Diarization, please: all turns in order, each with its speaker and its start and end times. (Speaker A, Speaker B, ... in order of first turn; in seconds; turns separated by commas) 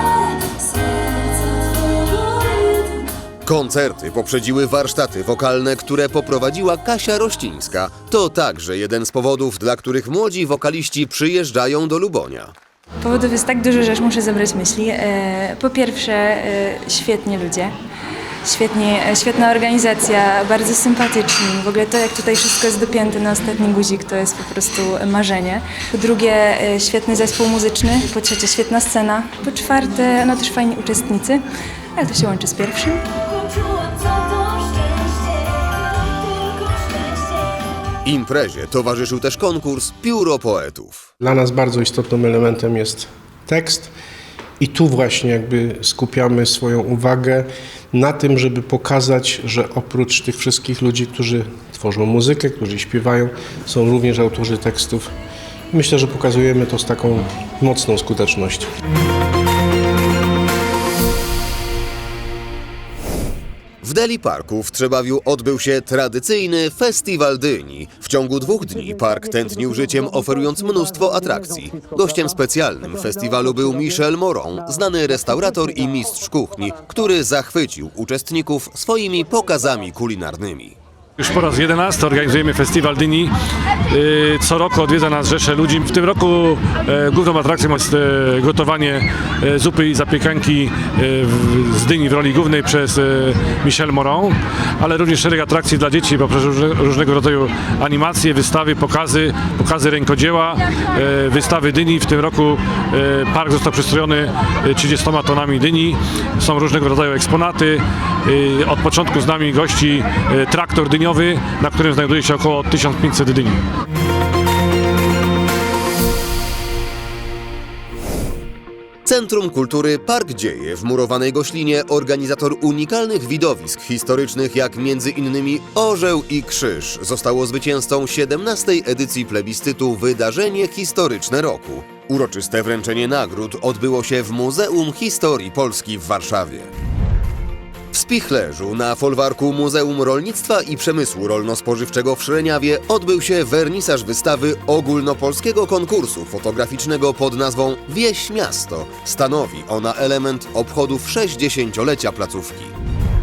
Speaker A: 3.5-12.5, Speaker B: 13.0-17.7, Speaker B: 18.4-31.4, Speaker B: 32.0-33.0, Speaker A: 38.0-41.1, Speaker C: 41.2-43.9, Speaker C: 44.6-55.1, Speaker C: 55.7-58.7, Speaker A: 63.8-80.8, Speaker D: 81.2-83.3, Speaker D: 83.9-113.6, Speaker A: 119.0-136.7, Speaker A: 137.9-152.8